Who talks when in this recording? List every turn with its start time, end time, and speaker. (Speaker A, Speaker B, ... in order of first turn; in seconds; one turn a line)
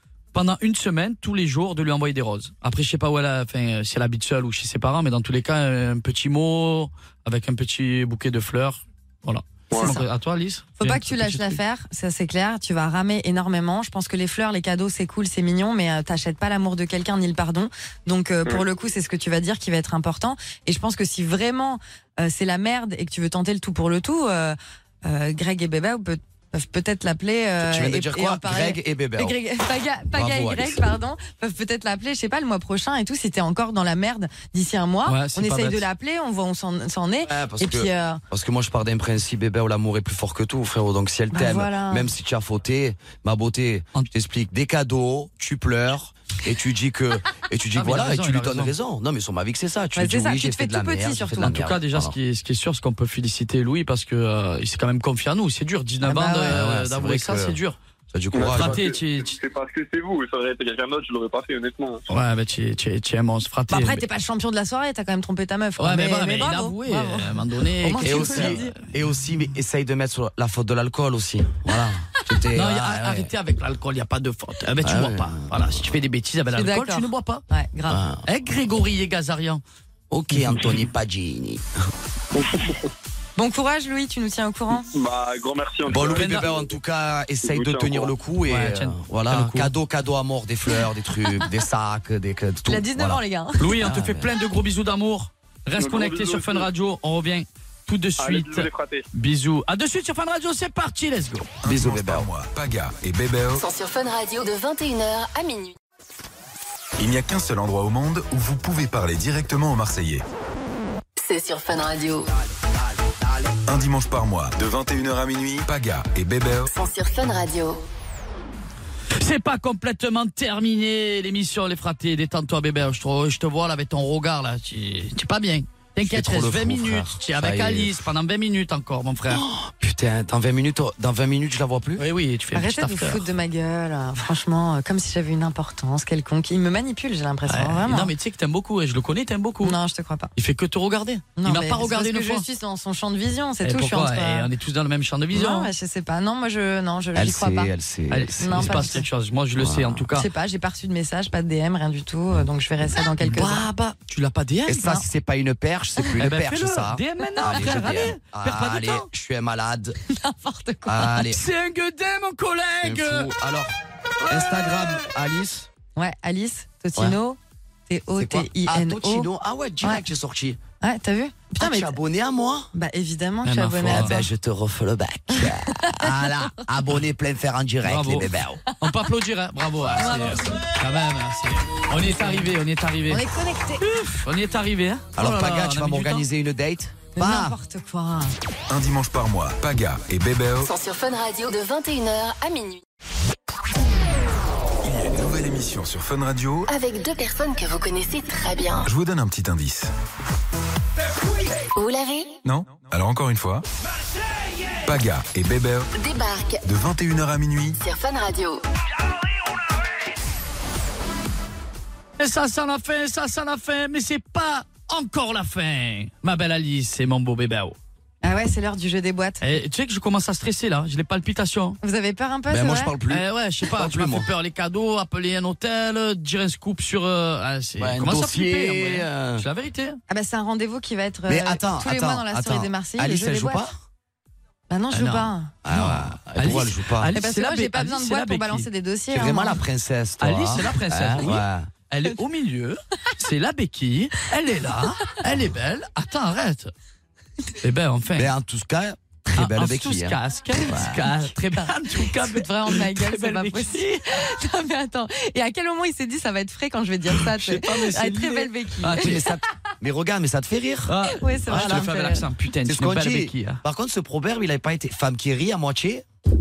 Speaker A: 0.3-11.6
Speaker B: 9.7-10.0
Speaker C: 9.8-10.1
Speaker C: 10.8-38.2
Speaker D: 27.6-29.4
Speaker D: 30.1-30.9
Speaker A: 35.1-35.9
Speaker D: 37.2-52.2
Speaker C: 41.3-42.1
Speaker A: 47.8-48.7
Speaker C: 50.0-51.5
Speaker A: 51.4-57.8
Speaker C: 56.1-56.6
Speaker D: 56.4-57.6
Speaker D: 58.1-58.8
Speaker B: 58.3-62.0
Speaker A: 58.5-59.4
Speaker A: 62.1-64.0
Speaker C: 63.7-68.8
Speaker A: 65.8-68.7
Speaker D: 68.0-73.3
Speaker A: 72.5-77.4
Speaker D: 74.8-76.0
Speaker C: 76.5-78.0
Speaker D: 77.9-78.2
Speaker A: 78.3-79.6
Speaker D: 80.1-81.7
Speaker A: 80.3-80.8
Speaker B: 82.4-82.7
Speaker C: 83.4-84.9
Speaker B: 84.9-86.8
Speaker D: 85.9-93.2
Speaker A: 86.0-86.6
Speaker B: 87.4-88.1
Speaker A: 88.5-89.7
Speaker C: 92.7-93.6
Speaker A: 93.6-101.5
Speaker D: 93.8-94.3
Speaker B: 95.8-96.7
Speaker B: 98.2-99.0
Speaker E: 101.6-103.6
Speaker D: 101.7-102.3
Speaker F: 103.6-105.8
Speaker E: 107.0-110.2
Speaker F: 111.2-112.3
Speaker E: 113.7-116.7
Speaker F: 116.7-117.8
Speaker A: 119.2-129.4
Speaker D: 126.0-128.1
Speaker D: 129.3-132.0
Speaker A: 132.0-133.3
Speaker C: 132.6-138.1
Speaker A: 137.5-139.8
Speaker C: 139.6-140.3
Speaker A: 140.4-142.4
Speaker C: 141.4-144.5
Speaker A: 143.6-145.7
Speaker C: 145.3-147.7
Speaker D: 147.2-148.8
Speaker A: 148.1-150.3
Speaker C: 148.4-149.1
Speaker D: 149.6-150.1
Speaker C: 150.2-153.7
Speaker A: 153.3-155.0
Speaker D: 154.7-160.0
Speaker A: 156.2-159.1
Speaker C: 157.4-158.1
Speaker C: 160.1-161.2
Speaker D: 160.9-161.4
Speaker A: 161.2-163.3
Speaker D: 162.8-163.7
Speaker D: 164.3-165.7
Speaker C: 166.0-169.3
Speaker D: 168.2-170.6
Speaker C: 170.8-172.0
Speaker D: 171.6-172.7
Speaker C: 172.7-174.3
Speaker A: 173.4-174.2
Speaker D: 173.9-178.6
Speaker C: 175.3-176.1
Speaker A: 177.8-183.3
Speaker C: 180.0-180.6
Speaker C: 183.1-183.9
Speaker A: 183.8-186.3
Speaker D: 185.2-187.6
Speaker C: 187.2-188.3
Speaker E: 188.7-190.7
Speaker F: 190.6-192.8
Speaker E: 194.8-196.7
Speaker F: 196.7-198.9
Speaker E: 198.8-199.9
Speaker F: 201.8-202.4
Speaker E: 202.4-203.7
Speaker E: 204.8-205.9
Speaker F: 205.9-206.6
Speaker E: 206.7-207.8
Speaker F: 207.8-208.6
Speaker A: 212.2-217.8
Speaker C: 218.2-219.5
Speaker A: 219.4-221.8
Speaker C: 221.8-222.9
Speaker D: 222.5-224.3
Speaker A: 223.1-230.0
Speaker D: 227.8-229.4
Speaker C: 230.1-233.7
Speaker D: 231.3-233.8
Speaker C: 234.7-235.5
Speaker A: 234.9-238.7
Speaker D: 235.6-237.1
Speaker C: 237.1-239.6
Speaker D: 239.1-241.7
Speaker A: 240.2-246.7
Speaker A: 247.6-248.3
Speaker D: 248.2-251.1
Speaker A: 249.4-254.0
Speaker C: 251.5-259.2
Speaker A: 257.1-259.2
Speaker D: 258.9-261.9
Speaker A: 260.9-263.6
Speaker C: 261.1-262.3
Speaker D: 262.7-266.1